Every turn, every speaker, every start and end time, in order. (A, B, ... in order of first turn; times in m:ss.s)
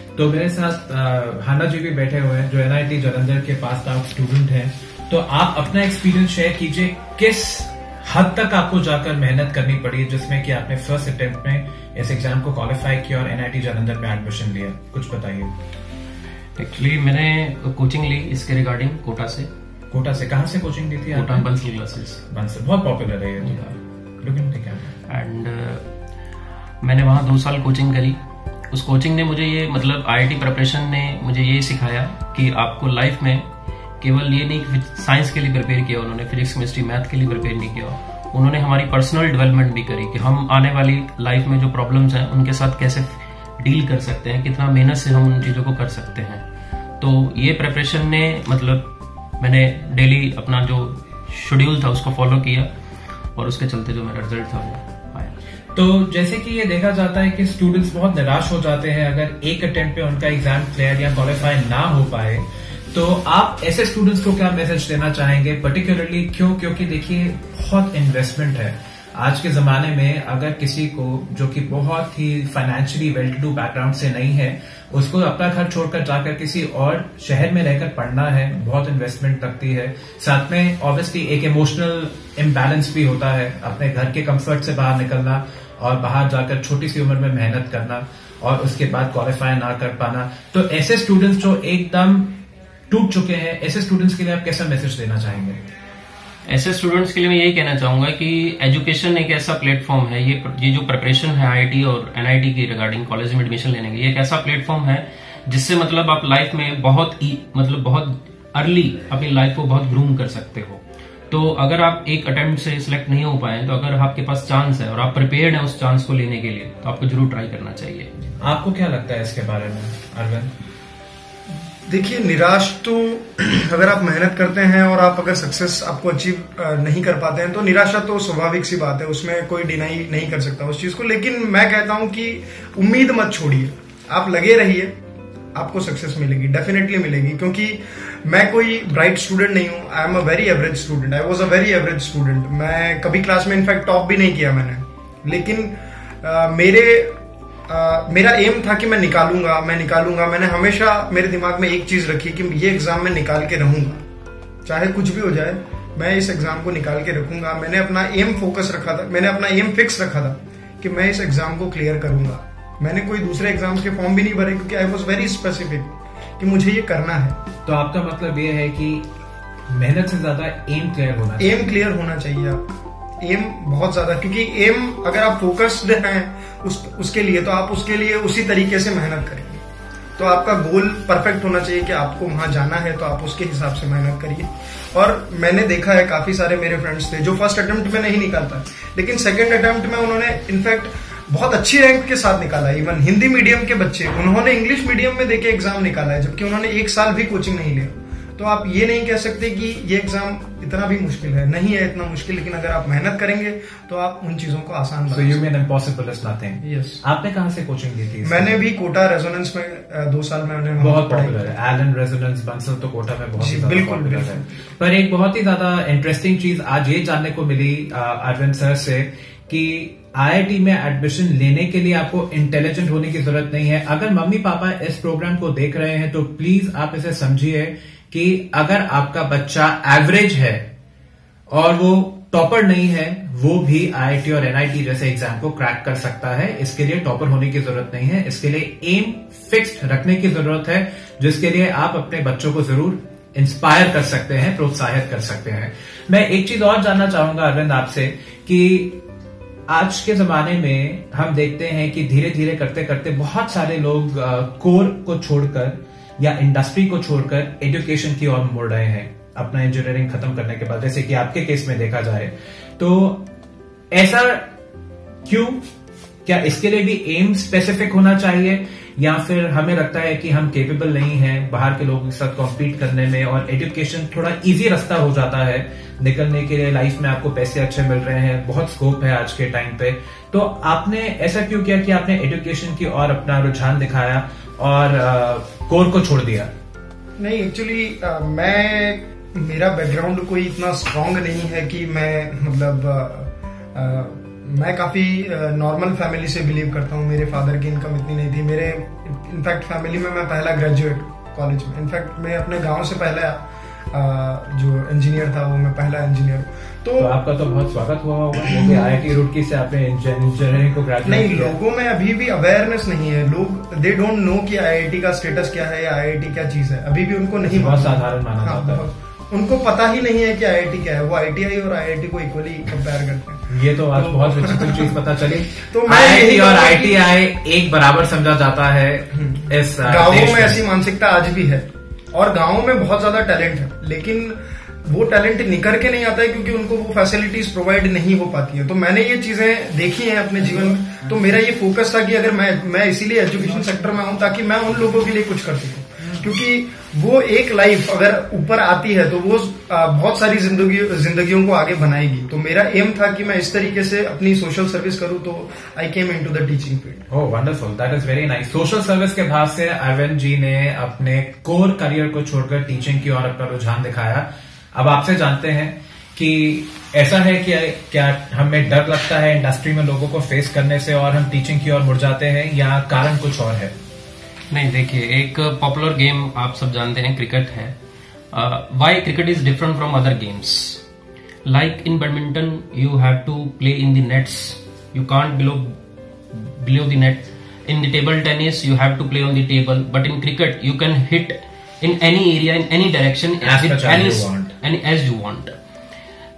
0:00.2-0:15.5 A
0:16.6-0:19.5 B
0:19.9-0:21.5 A
0:21.1-0:22.2 B
0:22.3-0:25.0 A
0:25.1-0:25.9 B
0:26.8-0:28.2 B
0:28.7-0:33.4 B
0:34.0-0:46.4 B
0:47.0-0:52.7 B
0:53.4-0:55.3 B
0:55.7-1:32.4 A
1:32.9-1:35.6 A
1:36.5-1:58.1 B
1:58.4-2:00.5 A
2:01.9-2:14.9 C
2:15.5-2:34.0 C
2:34.6-2:47.4 C
2:47.6-2:49.1 A
2:49.7-2:51.8 A
2:51.4-2:52.6 C
2:53.2-2:59.6 C
3:00.2-3:25.4 C
3:25.1-3:28.6 A
3:26.6-3:27.0 C
3:28.2-3:31.5 C
3:30.8-3:50.7 A
3:33.4-3:34.6 C
3:51.5-4:09.0 A
4:09.7-4:23.3 A
4:23.9-4:24.5 A
4:25.2-4:25.6 A
4:26.2-4:46.5 A
4:47.2-5:07.1 C
5:07.0-5:11.6 A
5:11.0-5:25.0 C
5:17.5-5:18.8 A
5:23.5-5:30.6 A
5:25.7-5:27.0 C
5:29.2-5:57.0 C
5:57.1-6:13.7 A
6:14.5-6:17.7 B
6:18.3-6:20.8 B
6:21.4-6:25.8 B
6:26.3-6:35.5 B
6:33.4-6:34.5 A